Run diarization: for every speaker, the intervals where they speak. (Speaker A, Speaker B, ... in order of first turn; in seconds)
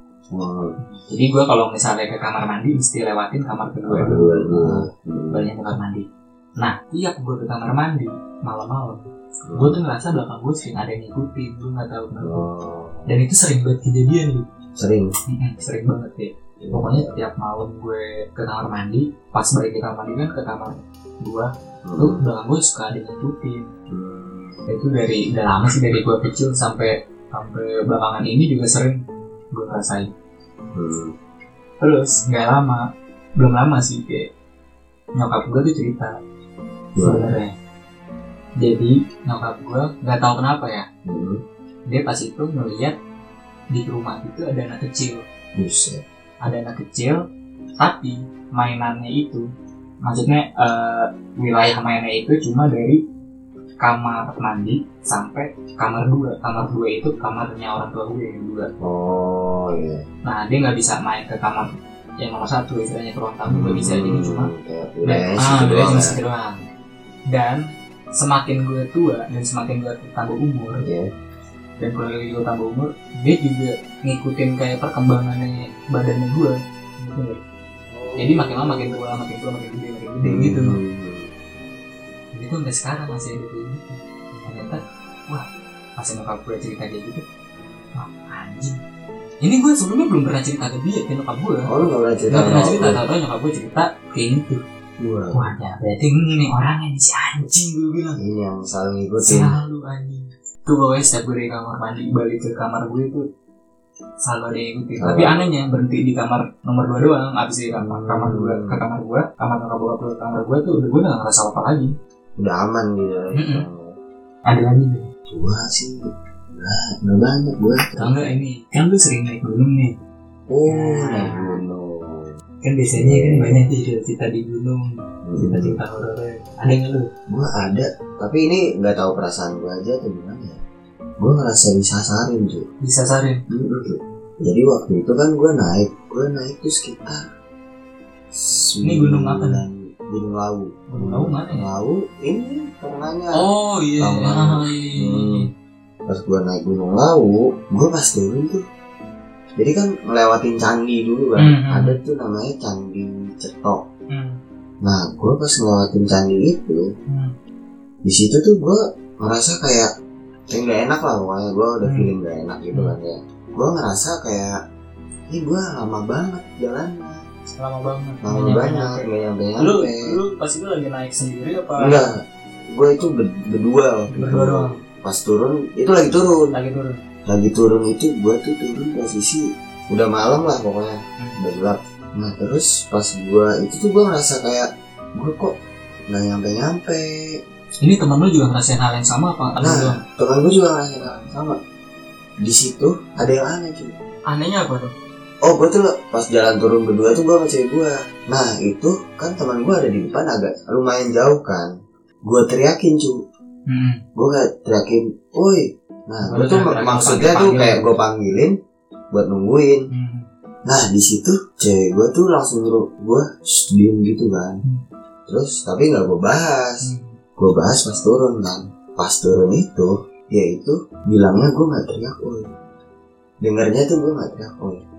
Speaker A: 0.3-0.8, 3.9-5.5, 9.5-9.8, 12.2-13.1, 14.8-15.1, 16.6-17.2, 21.9-22.2, 23.9-24.6, 30.8-31.1, 37.0-37.3, 41.1-41.4, 45.6-46.0, 58.8-60.0, 63.5-66.2, 70.8-71.1, 77.9-79.2, 80.2-81.3, 91.7-93.0, 95.0-95.5, 98.2-99.5, 105.0-105.5, 107.8-108.8, 112.4-113.9, 115.3-116.0, 116.5-118.2, 120.5-122.3, 122.9-123.6, 125.2-125.8, 127.3-130.6, 131.2-132.7, 133.5-137.2, 138.3-143.4, 144.0-145.5, 146.1-148.6, 149.6-153.8, 154.8-156.8, 158.0-159.9, 160.5-164.6, 165.3-167.2, 168.2-170.2, 171.8-172.2, 172.7-176.5, 177.3-185.6, 186.1-187.4, 189.6-191.6, 192.4-193.9, 195.4-201.7, 202.3-203.2, 204.2-208.5, 209.1-209.9, 210.7-214.6, 215.3-216.8, 217.4-222.5, 223.4-224.8
Speaker B: 0.8-6.0, 6.6-12.4, 13.1-14.4, 15.3-23.7, 24.7-29.0, 29.5-30.1, 31.8-32.9, 33.4-34.3, 35.2-36.1, 37.0-37.5, 38.6-40.9, 41.9-43.0, 43.7-45.2, 46.4-47.2, 47.8-49.5, 50.0-53.0, 53.8-58.7, 60.2-64.5, 65.0-66.6, 67.3-70.9, 71.8-77.4, 78.2-80.8, 82.3-85.5, 86.0-87.2, 88.0-88.8, 89.4-91.7, 92.3-94.6, 95.3-98.2, 99.2-103.2, 104.2-111.9, 113.3-113.7, 114.5-115.1, 118.0-119.9, 120.7-121.6, 122.6-127.1, 132.8-133.4, 138.8-139.6, 140.9-141.7, 143.3-145.5, 151.4-152.0, 154.1-154.4, 157.1-157.3, 161.8-162.1, 167.6-169.1, 169.6-172.0, 174.1-174.8, 176.5-177.0, 187.8-190.0, 194.3-194.9, 203.7-204.0, 206.2-207.9, 209.9-210.2, 216.8-217.2